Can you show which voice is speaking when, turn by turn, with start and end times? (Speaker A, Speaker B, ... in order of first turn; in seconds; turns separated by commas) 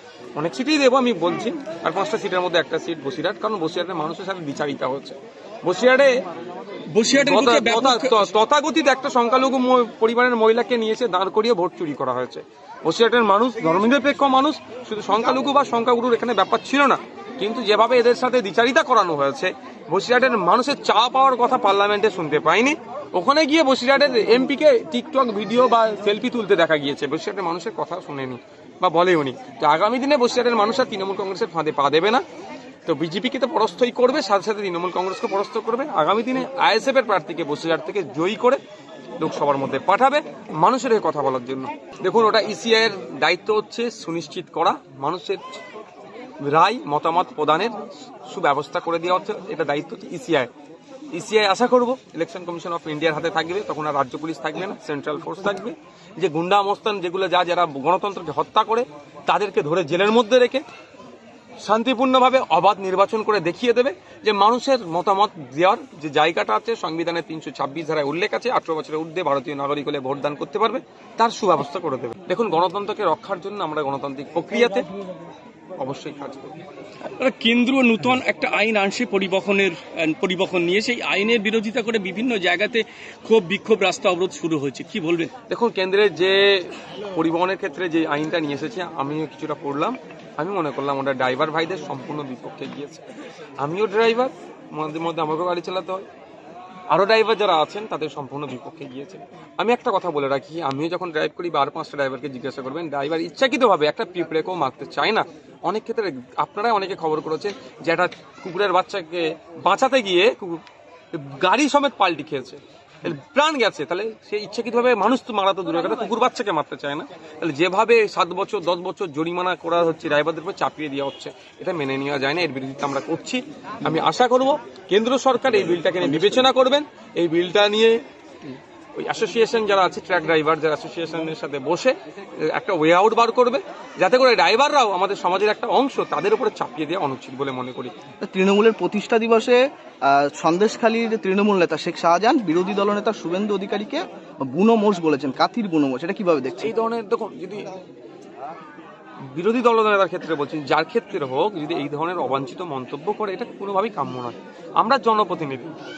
Speaker A: 0.3-6.1, Speaker B: 6.9-8.2, Speaker A: 7.1-32.2, Speaker A: 32.9-38.6, Speaker A: 39.2-45.4, Speaker A: 46.4-47.8, Speaker A: 48.3-50.5, Speaker A: 51.1-60.6, Speaker A: 61.6-74.9, Speaker A: 75.8-76.6, Speaker B: 77.2-85.3, Speaker A: 85.4-93.0, Speaker A: 93.6-96.0, Speaker A: 96.9-128.0, Speaker A: 128.9-131.9, Speaker A: 132.5-137.9, Speaker C: 138.2-146.7, Speaker A: 146.6-147.7, Speaker A: 149.3-155.7